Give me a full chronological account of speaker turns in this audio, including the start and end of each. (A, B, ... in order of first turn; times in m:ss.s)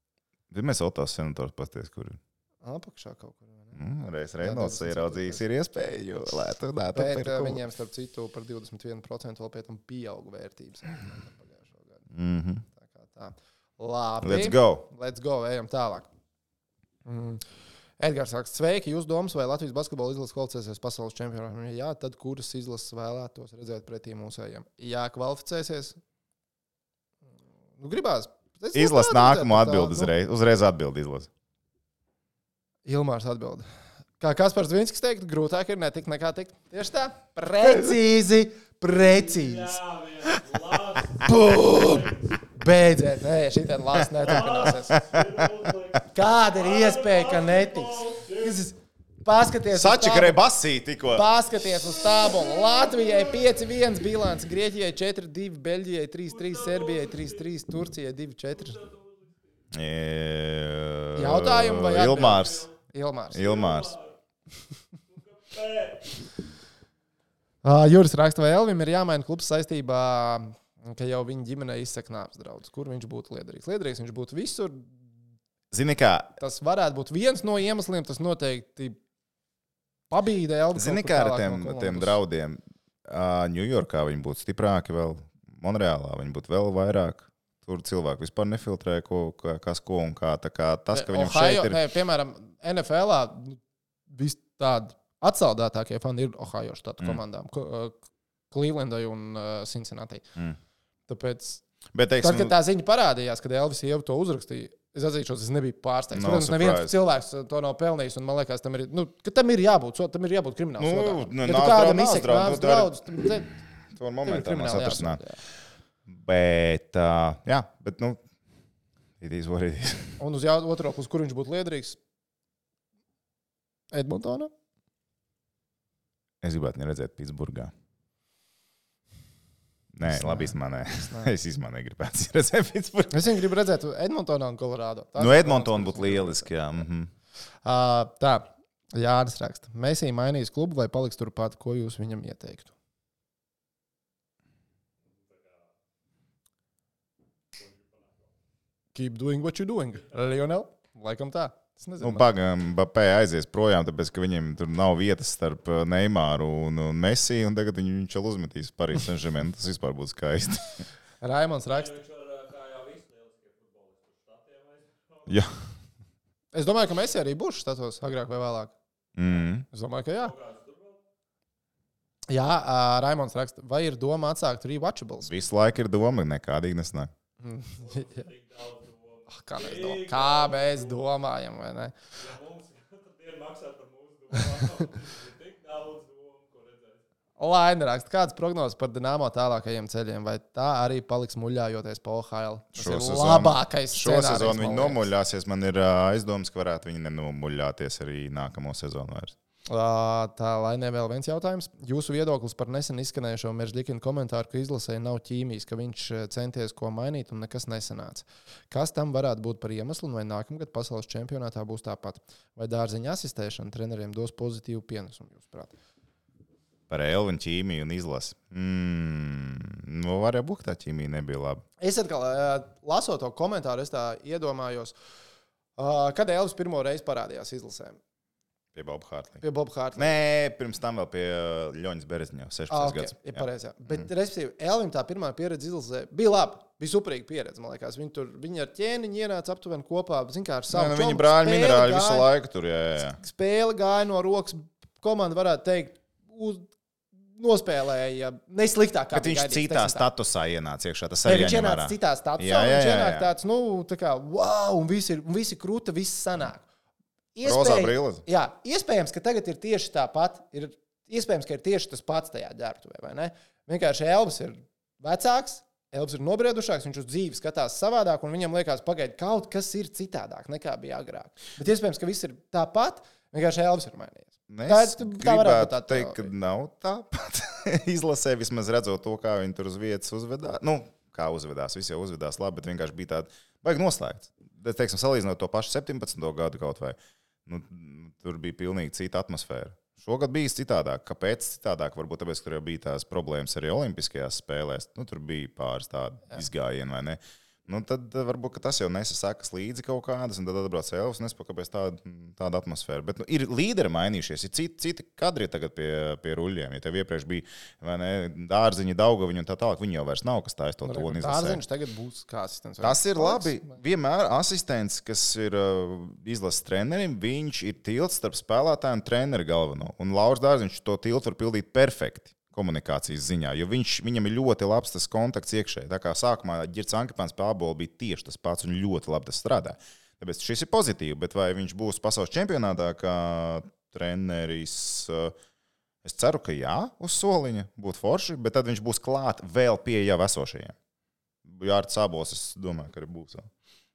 0:00.5-0:02.2 A
0:02.6-0:03.8 B
0:03.7-0:07.6 A
0:04.4-0:05.4 B
0:06.9-0:12.0 B
0:12.1-0:12.6 A
0:12.8-0:16.1 B
0:14.2-0:14.9 A
0:17.0-0:17.4 B
0:18.0-0:26.0 B
0:27.8-0:30.1 B
0:28.7-0:31.3 A
0:32.8-0:33.7 B
0:34.2-0:39.8 B
0:38.9-0:42.3 C
0:41.2-0:45.0 B
0:44.2-0:48.7 C
0:44.9-0:45.6 A
0:46.1-0:50.4 B
0:49.7-0:51.3 A
0:51.1-0:58.8 B
0:52.2-0:53.4 C
0:56.3-0:57.5 C
0:58.5-0:59.7 C
0:59.7-1:02.7 A
1:01.1-1:03.6 B
1:02.3-1:02.6 C
1:03.3-1:03.9 A
1:03.4-1:04.1 C
1:05.1-1:06.2 C
1:07.6-1:15.0 B
1:15.7-1:16.3 A
1:16.4-1:19.0 B
1:20.1-1:22.2 B
1:20.7-1:31.8 A
1:30.9-1:40.3 B
1:41.1-1:41.6 B
1:41.9-1:42.5 A
1:42.2-1:53.5 B
1:46.1-1:46.9 A
1:50.8-1:53.3 A
1:53.9-1:55.2 A
1:54.2-1:55.4 B
1:56.1-1:58.2 A
1:59.2-2:00.2 A
2:00.2-2:02.0 B
2:03.9-2:04.5 B
2:06.4-2:07.7 A
2:09.9-2:13.4 A
2:10.0-2:11.3 B
2:13.1-2:16.5 B
2:15.2-2:17.1 A
2:17.6-2:22.7 B
2:25.1-2:25.7 C
2:27.5-2:28.3 C
2:28.9-2:32.2 B
2:32.0-2:40.8 A
2:41.2-2:41.9 B
2:41.7-2:45.4 C
2:45.3-2:45.6 A
2:46.5-2:48.7 B
2:49.2-2:49.6 A
2:49.7-2:50.3 B
2:50.0-2:51.0 C
2:52.3-2:55.3 B
2:55.2-2:57.1 A
2:57.4-2:58.3 B
2:57.8-3:01.0 C
2:59.3-3:02.0 B
3:02.1-3:07.0 C
3:07.4-3:15.1 B
3:12.7-3:19.3 A
3:19.7-3:35.7 B
3:36.9-3:41.6 A
3:41.8-3:44.9 B
3:45.8-3:48.0 B
3:48.7-3:49.4 A
3:49.4-3:50.2 B
3:50.0-3:54.0 A
3:52.7-4:02.3 B
4:00.7-4:03.2 A
4:03.2-4:06.7 B
4:07.3-4:10.1 B
4:09.1-4:13.3 A
4:11.2-4:16.6 B
4:17.4-4:36.3 B
4:17.4-4:18.2 A
4:34.5-5:11.6 A
5:10.8-5:13.8 B
5:12.8-5:35.3 A
5:36.0-5:40.7 A
5:41.4-5:43.5 A